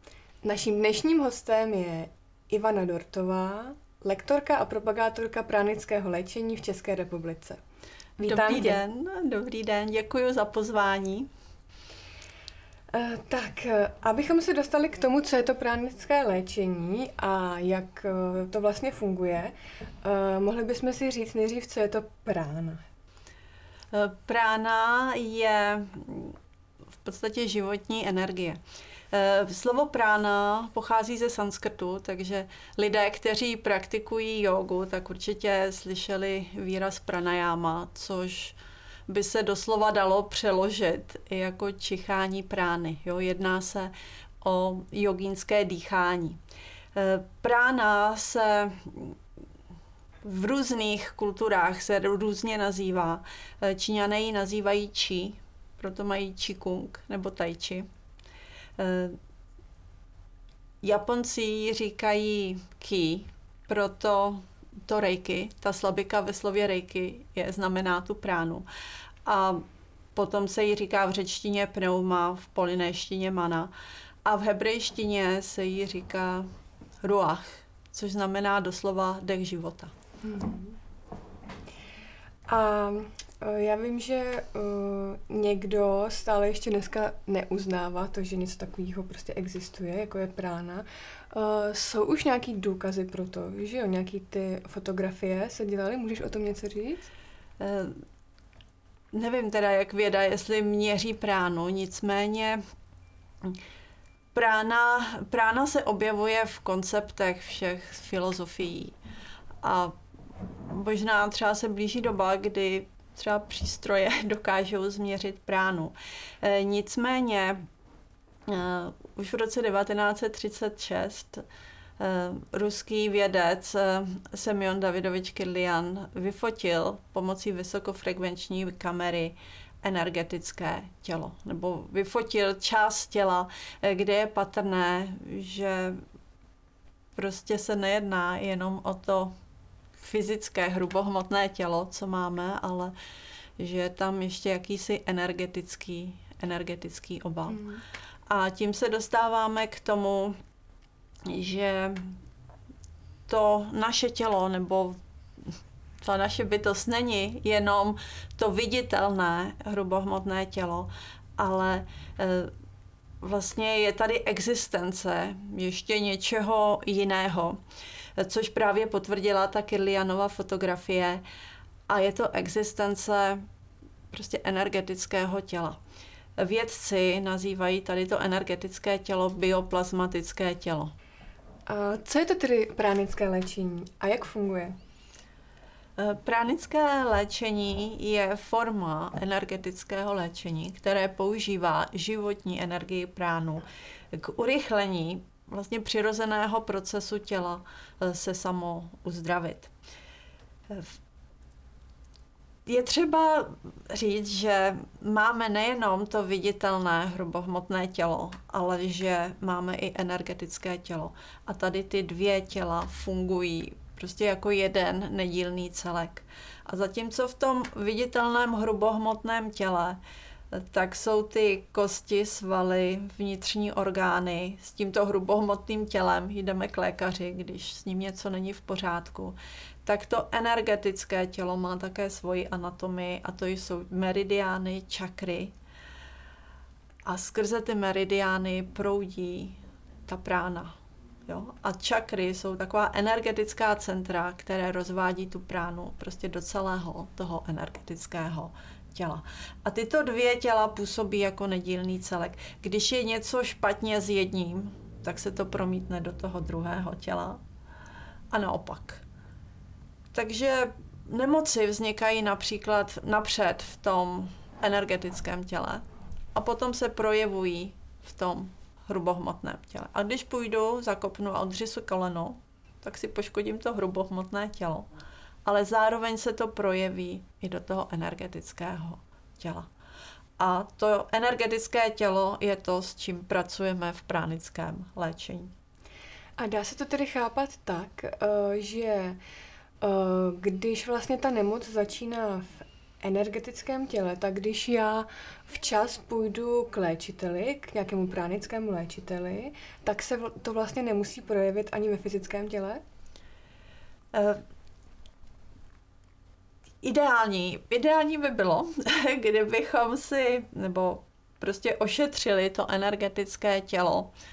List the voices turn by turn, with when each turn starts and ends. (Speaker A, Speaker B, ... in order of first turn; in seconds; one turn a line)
Speaker A: 0.4-7.6
Speaker B: 8.2-11.3
Speaker A: 8.2-8.8
Speaker A: 12.9-22.8
Speaker B: 23.9-26.4
Speaker B: 27.0-38.6
Speaker B: 39.1-46.4
Speaker B: 46.9-49.2
Speaker B: 50.2-57.9
Speaker B: 58.8-59.2
Speaker B: 60.8-68.7
Speaker B: 69.2-69.6
Speaker B: 70.1-73.7
Speaker B: 74.2-76.5
Speaker B: 77.0-79.9
Speaker A: 80.2-80.8
Speaker A: 82.5-97.1
Speaker B: 97.6-98.0
Speaker B: 99.1-102.6
Speaker B: 104.3-109.0
Speaker B: 109.6-117.6
Speaker B: 118.5-121.4
Speaker B: 122.0-136.0
Speaker B: 137.2-139.3
Speaker B: 140.0-142.9
Speaker B: 143.6-147.6
Speaker A: 147.5-147.8
Speaker B: 148.3-150.4
Speaker B: 151.2-152.2
Speaker B: 153.3-162.5
Speaker B: 163.2-167.6
Speaker B: 168.2-171.2
Speaker B: 171.9-173.4
Speaker B: 174.1-175.8
Speaker B: 176.4-180.9
Speaker A: 181.7-184.8
Speaker B: 186.0-199.7
Speaker B: 200.7-201.0
Speaker B: 202.7-220.0
Speaker B: 220.5-235.5
Speaker B: 237.1-257.4
Speaker B: 258.3-259.0
Speaker B: 260.1-274.9
Speaker B: 275.4-279.7
Speaker B: 280.4-285.5
Speaker A: 286.4-289.2
Speaker A: 289.8-302.8
Speaker B: 304.1-304.4
Speaker B: 306.8-314.1